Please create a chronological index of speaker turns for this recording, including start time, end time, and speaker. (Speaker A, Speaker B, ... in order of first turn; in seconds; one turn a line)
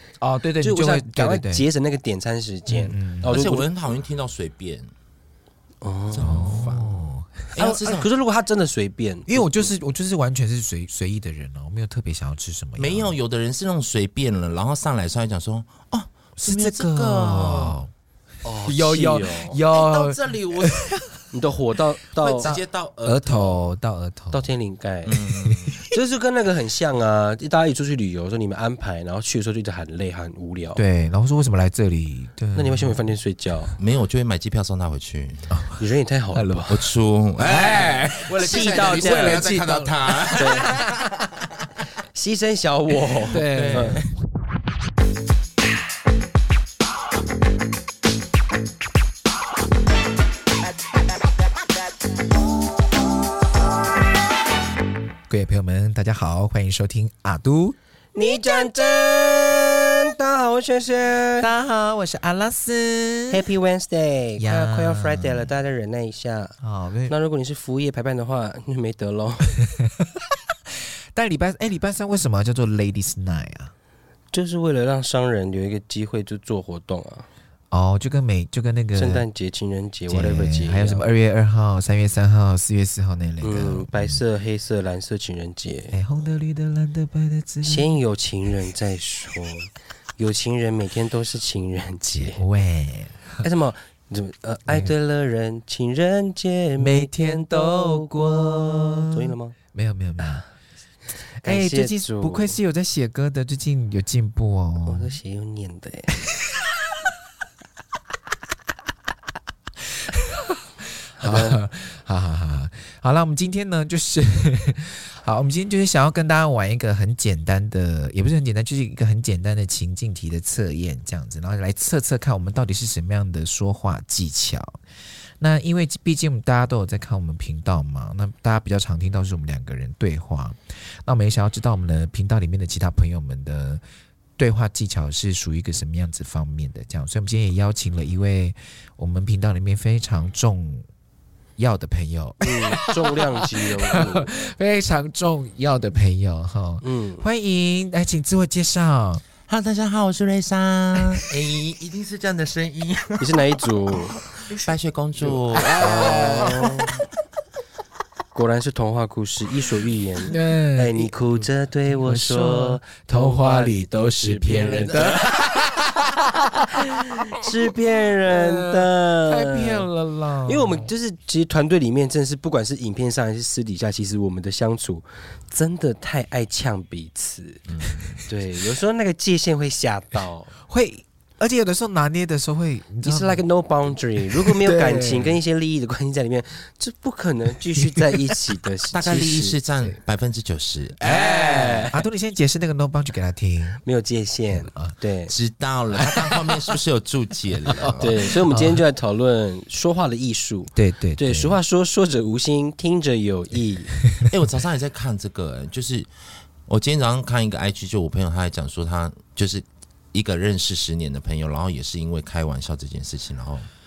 Speaker A: 0.2-1.7
Speaker B: 0.6-3.7
Speaker A: 2.7-3.4
Speaker C: 3.2-4.9
Speaker B: 5.8-6.7
Speaker C: 6.1-8.1
Speaker A: 6.2-7.5
Speaker B: 7.6-9.7
Speaker A: 9.3-13.2
Speaker C: 12.8-17.8
Speaker A: 16.4-17.9
Speaker B: 18.4-19.6
Speaker A: 18.6-21.2
Speaker C: 19.7-20.8
Speaker B: 21.3-22.6
Speaker C: 22.2-23.7
Speaker A: 22.4-24.5
Speaker B: 24.3-25.2
Speaker C: 25.1-25.9
Speaker A: 25.3-25.9
Speaker B: 25.9-30.8
Speaker A: 30.8-33.1
Speaker B: 32.5-33.8
Speaker C: 33.8-35.6
Speaker A: 35.5-35.8
Speaker B: 35.8-36.7
Speaker A: 36.3-36.8
Speaker C: 36.7-41.2
Speaker A: 37.4-40.9
Speaker B: 38.4-39.5
Speaker B: 40.3-40.7
Speaker B: 42.1-44.0
Speaker A: 43.3-44.0
Speaker C: 43.4-44.1
Speaker A: 55.3-57.8
Speaker B: 58.1-61.5
Speaker A: 61.4-63.4
Speaker B: 63.3-66.6
Speaker A: 64.4-65.5
Speaker A: 66.6-67.1
Speaker B: 67.1-69.5
Speaker A: 69.6-70.4
Speaker A: 71.1-73.7
Speaker B: 74.3-77.3
Speaker A: 77.7-79.2
Speaker B: 79.0-81.0
Speaker A: 80.1-84.2
Speaker B: 83.4-86.0
Speaker A: 85.9-88.0
Speaker B: 87.6-92.4
Speaker A: 92.1-93.4
Speaker B: 93.4-99.5
Speaker A: 96.8-99.2
Speaker A: 99.7-100.5
Speaker A: 101.4-105.2
Speaker B: 101.4-102.6
Speaker B: 104.9-106.1
Speaker A: 110.1-110.6
Speaker A: 111.2-124.8
Speaker B: 111.2-111.6
Speaker A: 125.4-133.8
Speaker A: 134.4-140.9
Speaker A: 141.6-149.2
Speaker B: 142.4-144.3
Speaker B: 146.8-147.2
Speaker C: 149.5-153.5
Speaker A: 151.0-151.2
Speaker B: 153.2-154.2
Speaker C: 154.5-156.7
Speaker A: 155.5-156.8
Speaker B: 155.7-156.9
Speaker B: 158.3-165.3
Speaker A: 160.3-167.5
Speaker C: 164.6-165.4
Speaker B: 167.0-169.9
Speaker A: 168.3-170.9
Speaker B: 170.4-177.6
Speaker C: 177.7-178.2
Speaker B: 178.3-180.5
Speaker A: 180.7-183.4
Speaker B: 183.0-189.6
Speaker A: 184.4-185.4
Speaker A: 187.9-188.3
Speaker C: 188.9-191.8
Speaker B: 191.0-192.0
Speaker A: 191.1-193.8
Speaker B: 193.8-195.3
Speaker A: 194.5-195.0
Speaker C: 195.3-198.3
Speaker A: 195.9-196.8
Speaker A: 197.7-198.8
Speaker B: 198.0-204.0
Speaker A: 200.8-201.6
Speaker C: 204.2-206.1
Speaker C: 206.7-213.7